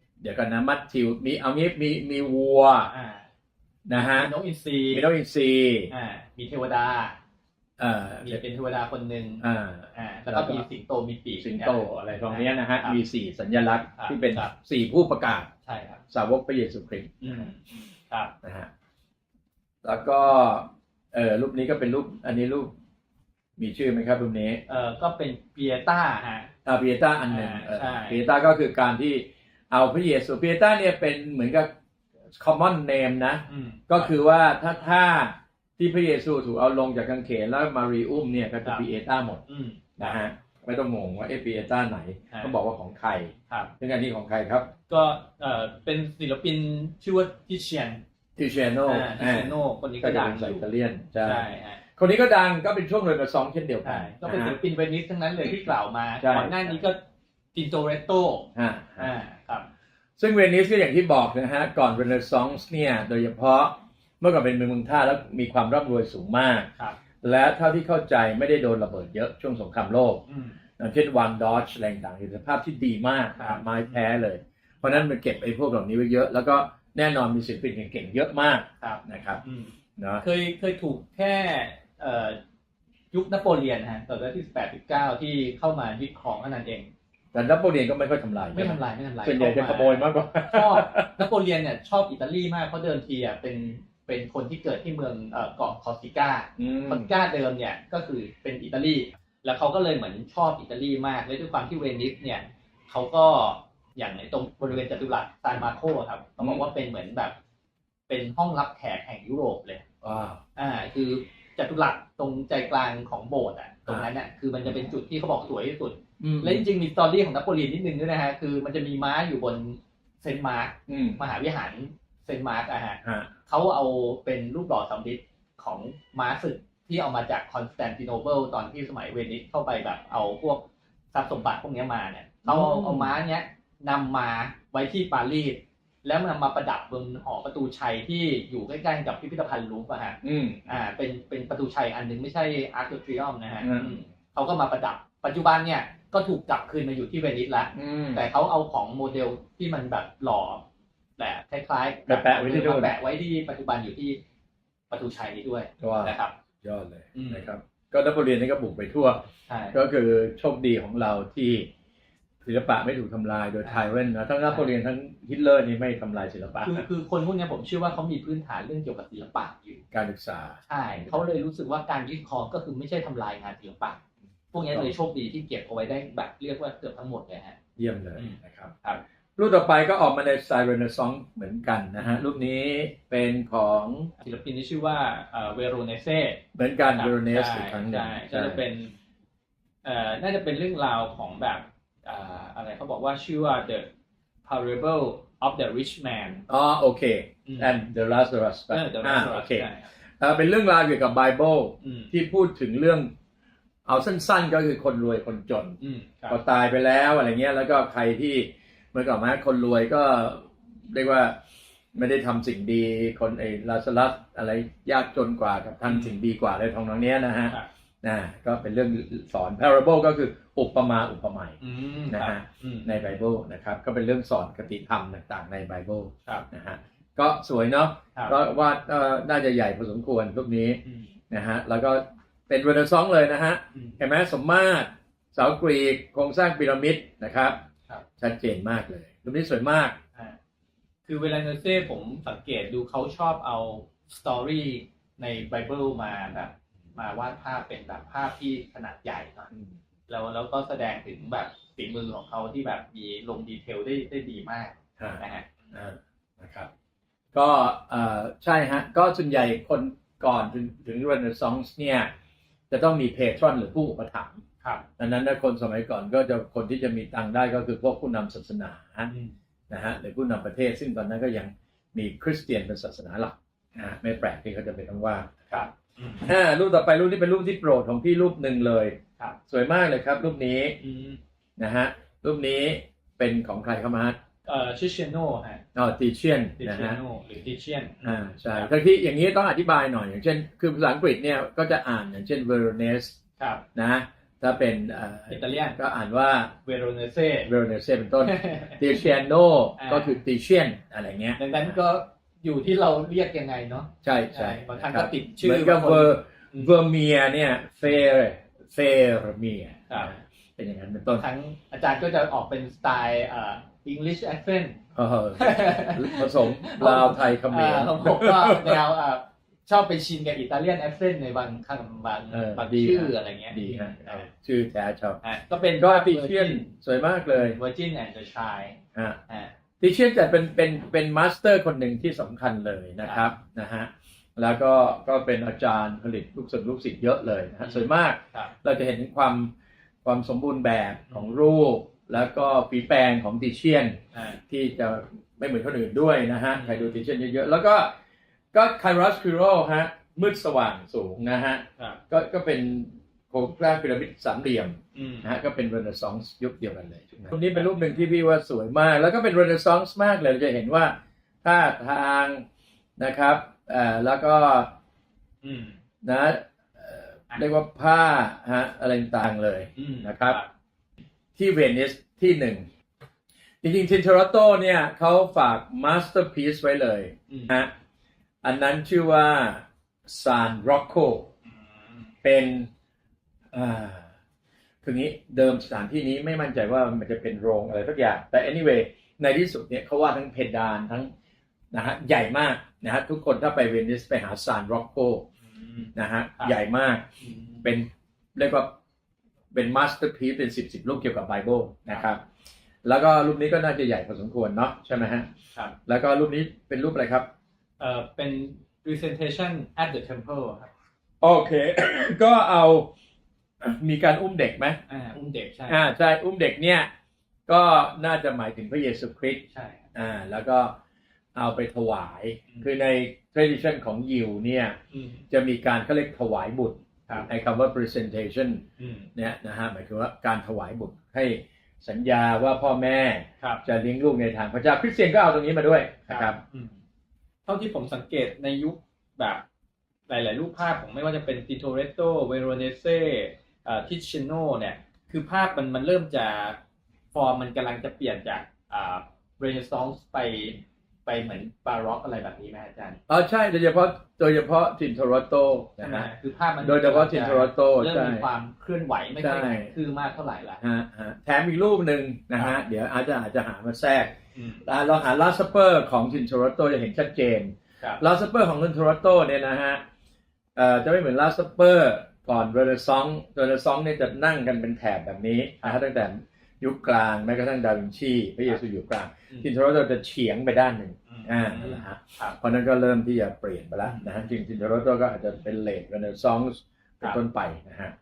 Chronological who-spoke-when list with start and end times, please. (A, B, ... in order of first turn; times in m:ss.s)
0:00.2-0:02.9 A
0:02.9-0:03.3 B
0:03.9-0:04.3 A
0:04.0-0:05.1 B
0:04.9-0:05.9 A
0:05.9-0:07.2 B
0:07.8-0:08.4 A
0:08.2-0:09.4 B
0:09.4-0:10.7 A
0:10.0-0:13.0 B
0:11.4-0:15.5 A
0:14.0-0:14.5 B
0:15.6-0:16.0 B
0:16.1-0:17.5 A
0:17.2-0:18.3 B
0:18.4-0:18.7 A
0:19.8-0:22.7 A
0:23.6-0:24.6 A
0:24.7-0:26.5 B
0:26.6-0:31.7 A
0:27.3-0:28.2 B
0:32.4-0:39.4 A
0:33.5-0:34.1 B
0:39.5-0:40.2 B
0:40.0-0:44.7 A
0:42.3-0:42.6 B
0:44.9-0:48.0 B
0:48.4-0:51.4 A
0:48.8-0:50.7 B
0:51.2-0:51.8 B
0:52.0-0:54.6 A
0:53.8-0:57.0 B
0:56.2-0:56.8 A
0:57.5-0:59.7 B
0:58.6-0:59.1 A
1:00.2-1:06.7 A
1:07.2-1:10.2 A
1:10.3-1:10.6 B
1:10.8-1:19.4 A
1:13.4-1:14.0 B
1:18.8-1:22.4 B
1:20.0-1:20.2 A
1:23.1-1:26.9 B
1:27.3-1:31.2 A
1:28.5-1:47.4 B
1:36.6-1:37.1 A
1:46.4-1:46.7 A
1:48.1-1:49.8 B
1:50.0-1:50.4 A
1:50.6-2:30.6 B
1:56.2-1:56.7 A
2:00.9-2:01.2 A
2:03.0-2:03.3 A
2:12.4-2:13.2 A
2:20.2-2:20.7 A
2:23.6-2:24.0 A
2:27.8-2:28.3 A
2:31.2-2:34.2 B
2:32.1-2:32.9 A
2:34.9-2:36.4 B
2:35.8-2:41.7 A
2:37.2-2:37.5 B
2:39.5-2:39.8 B
2:42.4-2:46.9 A
2:43.6-2:43.9 B
2:46.6-2:49.8 B
2:49.9-2:51.4 A
2:50.7-2:54.0 B
2:54.5-2:57.6 B
2:54.7-2:55.0 A
2:57.8-2:58.7 A
2:58.2-2:59.0 B
2:59.4-3:04.1 A
3:02.0-3:02.2 B
3:04.2-3:08.9 B
3:06.6-3:08.6 A
3:09.8-3:13.9 B
3:14.4-3:16.4 B
3:16.5-3:19.7 A
3:17.5-3:17.8 B
3:18.7-3:19.9 B
3:20.2-3:23.1 A
3:21.8-3:22.1 B
3:23.9-3:25.8 A
3:25.8-3:26.4 B
3:26.3-3:31.4 A
3:32.0-3:41.6 A
3:35.9-3:36.2 B
3:41.6-3:43.0 B
3:42.1-3:57.6 A
3:50.8-3:51.1 B
3:53.7-3:54.0 B
3:58.2-4:00.0 A
4:01.1-4:09.5 B
4:10.1-4:15.5 B
4:15.0-4:16.7 A
4:17.3-4:22.1 A
4:22.7-4:24.4 A
4:25.0-4:29.1 A
4:29.1-4:29.3 B
4:29.7-4:35.6 A
4:35.5-4:36.3 B
4:36.2-4:39.0 A
4:39.5-4:40.8 A
4:40.8-4:41.2 B
4:41.6-4:44.2 A
4:44.4-4:45.6 B
4:45.8-4:47.0 A
4:46.6-4:48.7 B
4:48.0-4:53.2 A
4:53.4-4:53.6 B
4:53.8-4:56.6 A
4:55.3-4:55.8 B
4:56.6-4:57.5 B
4:57.5-5:01.8 A
4:58.2-4:59.0 B
4:59.8-5:00.2 B
5:01.4-5:06.7 B
5:04.0-5:11.2 A
5:11.1-5:14.8 B
5:15.0-5:18.8 A
5:15.4-5:24.3 B
5:22.3-5:25.2 A
5:25.2-5:26.7 B
5:25.8-5:27.6 A
5:27.3-5:29.5 B
5:29.8-5:39.5 A
5:33.0-5:33.3 B
5:37.6-5:38.5 B
5:40.0-5:44.0 A
5:41.1-5:41.4 B
5:44.1-5:44.4 B
5:44.5-5:47.9 A
5:46.5-5:47.0 B
5:48.5-6:02.4 A
5:55.0-5:55.3 B
5:57.5-5:58.1 B
6:03.0-6:04.7 A
6:05.4-6:05.8 B
6:06.0-6:10.4 A
6:09.8-6:10.5 B
6:11.4-6:12.7 A
6:13.6-6:17.7 A
6:17.3-6:17.6 B
6:18.4-6:21.3 A
6:22.2-6:22.7 A
6:23.5-6:24.1 A
6:24.8-6:31.1 A
6:31.7-6:35.3 A
6:35.5-6:36.6 B
6:36.0-6:37.1 A
6:37.2-6:37.6 B
6:37.6-6:38.7 A
6:39.5-6:42.2 A
6:42.8-6:45.3 A
6:45.9-6:47.3 A
6:47.8-6:50.7 B
6:51.2-6:52.9 A
6:53.6-6:54.8 A
6:54.9-6:55.8 B
6:55.7-6:56.9 A
6:57.5-6:59.4 A
6:59.5-6:59.8 B
7:00.0-7:00.8 A
7:01.4-7:04.8 A
7:04.9-7:05.2 B
7:05.3-7:08.6 A
7:08.8-7:09.1 B
7:09.2-7:16.4 A
7:16.1-7:16.7 B
7:17.5-7:19.4 B
7:20.1-7:26.6 B
7:27.1-7:33.0 B
7:33.1-7:36.1 A
7:35.8-7:40.6 B
7:36.6-7:38.2 A
7:39.2-7:39.7 A
7:40.6-7:49.8 A
7:44.4-7:44.6 B
7:50.6-8:08.0 A
8:01.1-8:02.4 B
8:03.8-8:04.2 B